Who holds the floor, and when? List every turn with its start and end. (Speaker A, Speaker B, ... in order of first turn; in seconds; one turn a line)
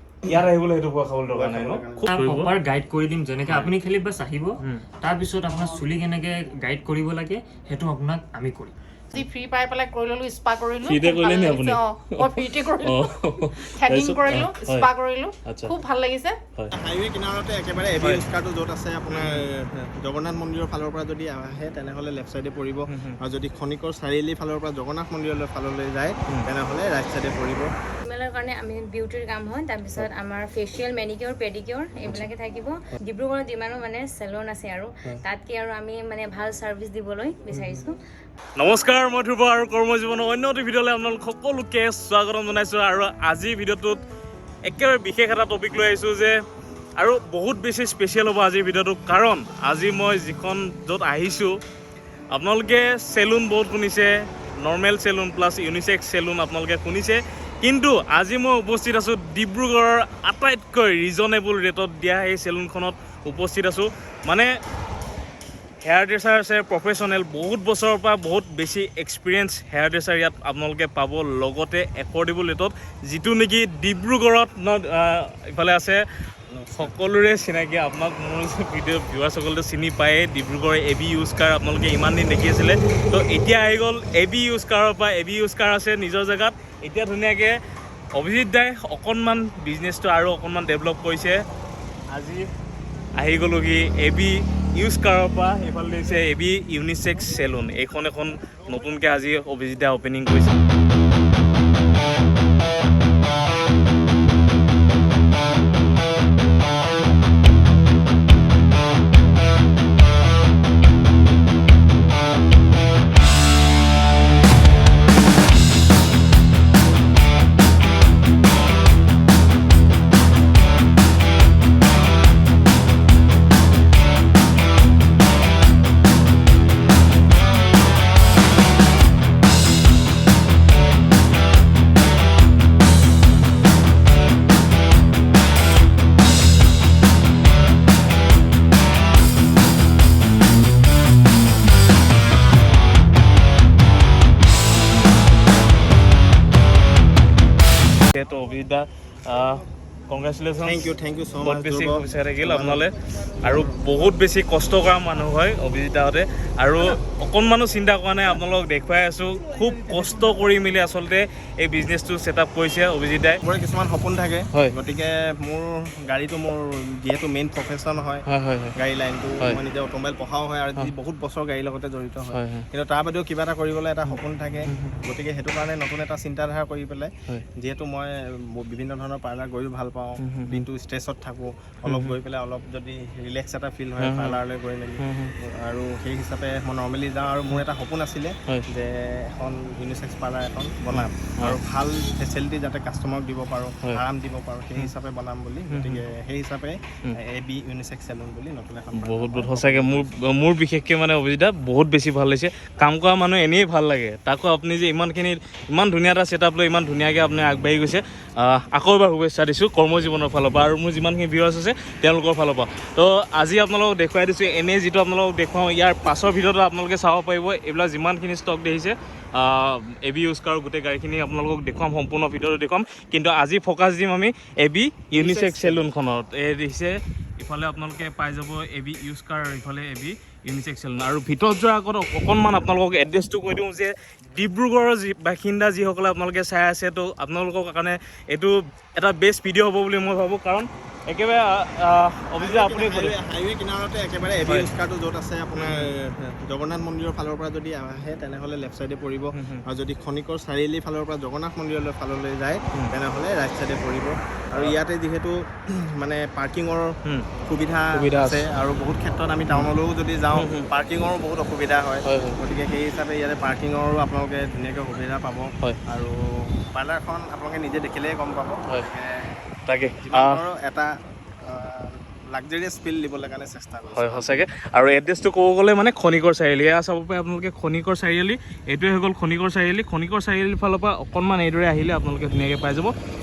Speaker A: 0.2-2.5
Speaker B: 1.3-2.1
Speaker C: 2.1-8.7
Speaker D: 9.1-13.0
Speaker A: 10.8-14.9
Speaker D: 13.8-16.4
Speaker A: 15.4-15.7
Speaker B: 16.7-27.7
Speaker A: 18.0-18.2
Speaker A: 19.1-19.5
Speaker A: 22.9-23.2
Speaker E: 28.0-38.0
Speaker A: 37.5-37.9
Speaker A: 38.6-44.0
Speaker A: 44.6-46.4
Speaker A: 47.0-51.6
Speaker A: 52.3-64.5
Speaker A: 65.8-76.0
Speaker B: 76.5-77.0
Speaker A: 76.8-87.6
Speaker A: 88.1-91.4
Speaker A: 92.1-92.5
Speaker A: 93.2-100.6
Speaker A: 148.1-150.9
Speaker B: 150.6-152.9
Speaker A: 151.4-163.4
Speaker B: 153.4-153.8
Speaker B: 163.4-200.1
Speaker A: 168.2-168.8
Speaker A: 172.3-172.7
Speaker A: 174.1-175.0
Speaker A: 180.2-180.6
Speaker A: 181.8-182.1
Speaker A: 184.0-184.4
Speaker A: 185.0-185.3
Speaker A: 190.9-191.6
Speaker A: 195.7-196.0
Speaker A: 198.9-243.1
Speaker B: 242.4-256.9
Speaker A: 245.5-245.9
Speaker A: 249.3-249.6
Speaker B: 257.4-269.3
Speaker A: 257.9-258.4
Speaker A: 260.3-260.7
Speaker A: 262.0-262.4
Speaker A: 269.7-270.4
Speaker B: 270.0-270.9
Speaker B: 271.4-274.4
Speaker A: 273.9-282.9